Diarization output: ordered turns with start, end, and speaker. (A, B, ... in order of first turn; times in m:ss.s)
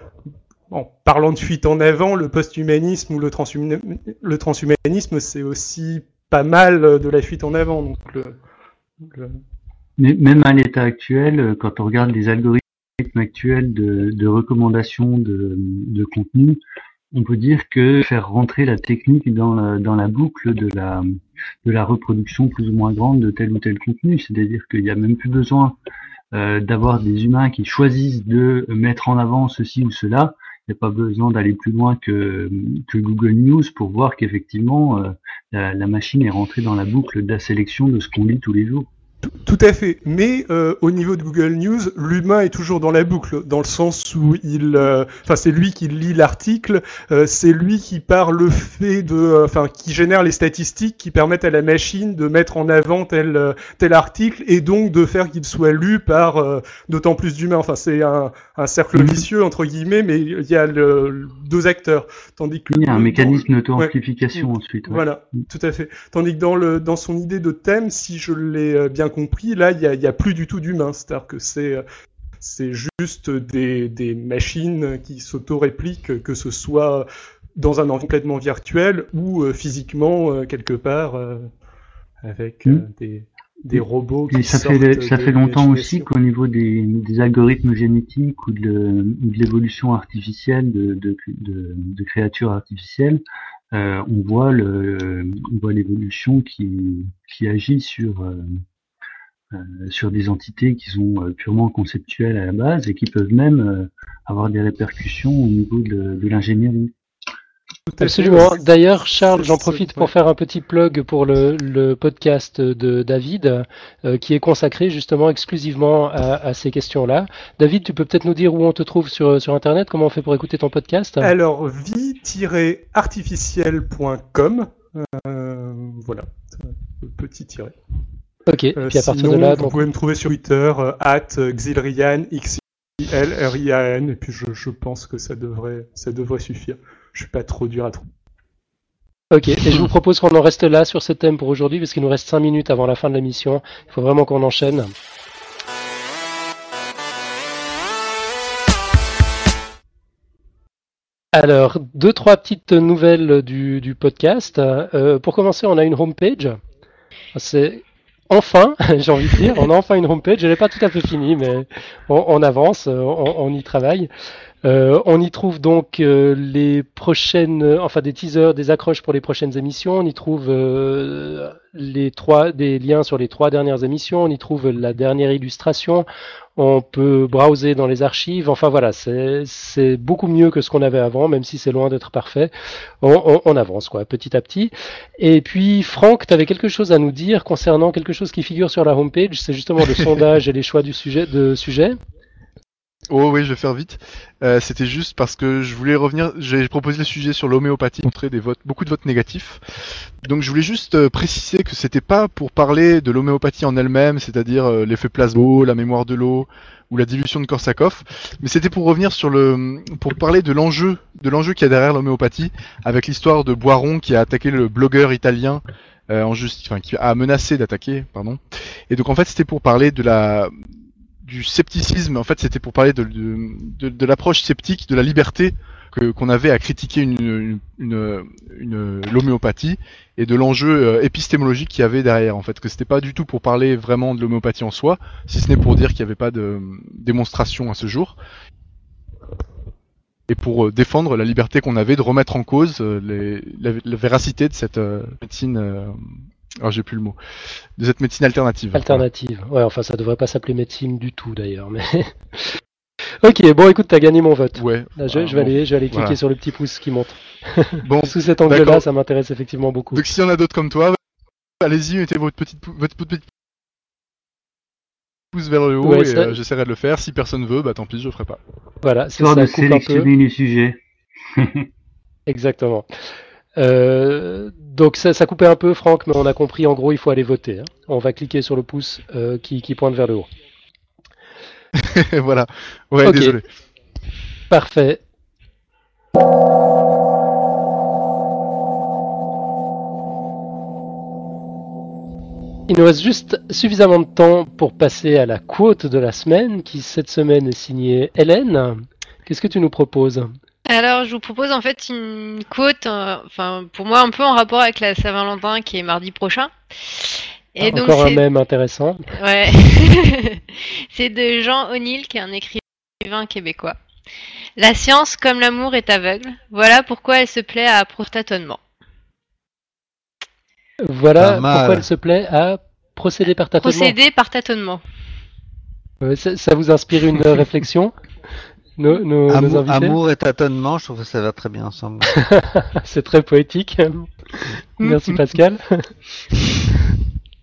0:00.7-0:08.4 A
0:09.0-0:09.4 A
0:10.0-0:16.6 B
0:17.1-0:25.8 B
0:26.3-0:38.9 B
0:39.2-1:11.8 A
0:58.9-0:59.2 C
1:02.7-1:05.4 B
1:12.4-1:21.5 A
1:22.2-1:26.1 A
1:23.7-1:33.2 B
1:33.7-1:38.6 B
1:39.5-1:46.9 B
1:47.9-1:50.1 A
1:48.0-2:01.3 D
2:01.2-2:07.8 A
2:08.5-2:09.8 D
2:08.8-2:18.1 A
2:19.3-2:24.9 D
2:31.3-2:36.6 D
2:37.3-2:44.1 D
2:44.6-3:12.0 D
3:13.1-3:40.5 C
3:41.2-3:58.2 C
4:00.3-4:06.0 C
4:06.6-4:07.2 C
4:07.8-4:09.0 C
4:08.7-4:12.5 D
4:13.2-4:20.0 D
4:14.6-4:16.2 C
4:17.8-4:18.8 C
4:19.9-4:21.0 C
4:21.6-4:23.3 C
4:25.3-4:28.4 C
4:25.8-4:26.4 D
4:28.8-4:30.1 D
4:29.2-4:31.7 B
4:32.3-4:32.9 D
4:33.6-4:40.3 D
4:41.7-4:43.4 C
4:43.0-4:43.4 D
4:44.5-4:45.0 D
4:52.7-5:00.3 D
5:00.7-5:08.2 E
5:07.6-5:09.1 D
5:09.1-5:13.8 E
5:14.6-5:18.6 E
5:20.8-5:23.9 D
5:21.2-5:21.8 F
5:23.6-5:24.8 E
5:26.0-5:27.9 D
5:28.8-5:30.0 D
5:29.3-5:32.1 F
5:32.1-5:34.1 D
5:34.8-5:35.9 D